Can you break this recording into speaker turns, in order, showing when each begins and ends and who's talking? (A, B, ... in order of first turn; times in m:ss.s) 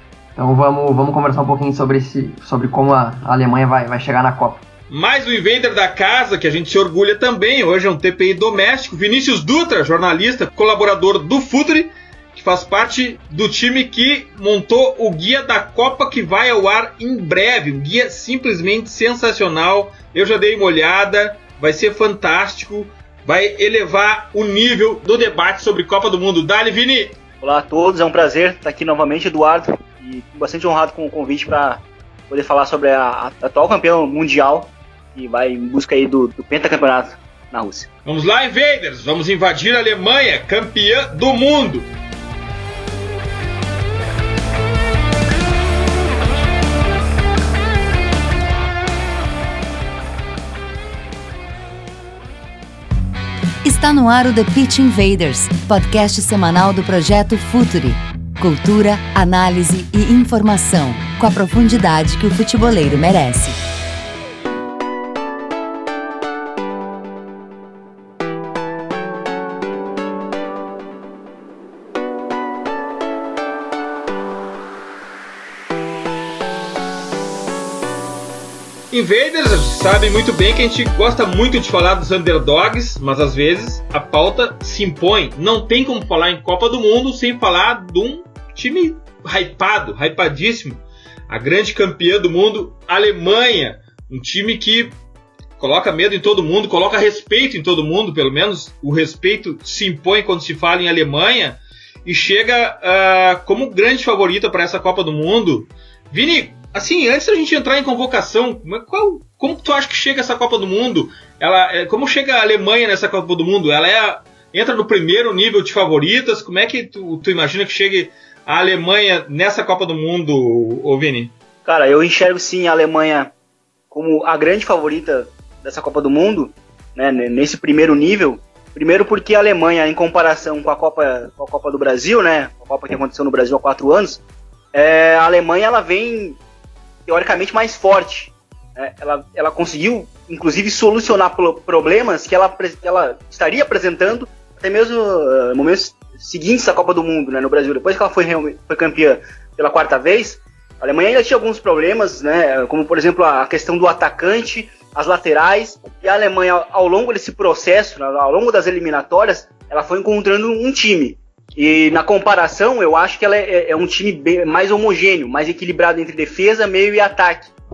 0:00.4-0:04.6 A
0:04.9-0:27.2 B
0:27.4-0:37.9 C
0:38.0-0:41.9 B
0:53.6-1:03.6 D
1:18.9-1:35.0 B
1:35.6-2:01.3 B
2:01.6-2:03.3 C
2:03.9-2:14.2 C
2:14.7-2:16.4 C
2:17.1-2:47.5 C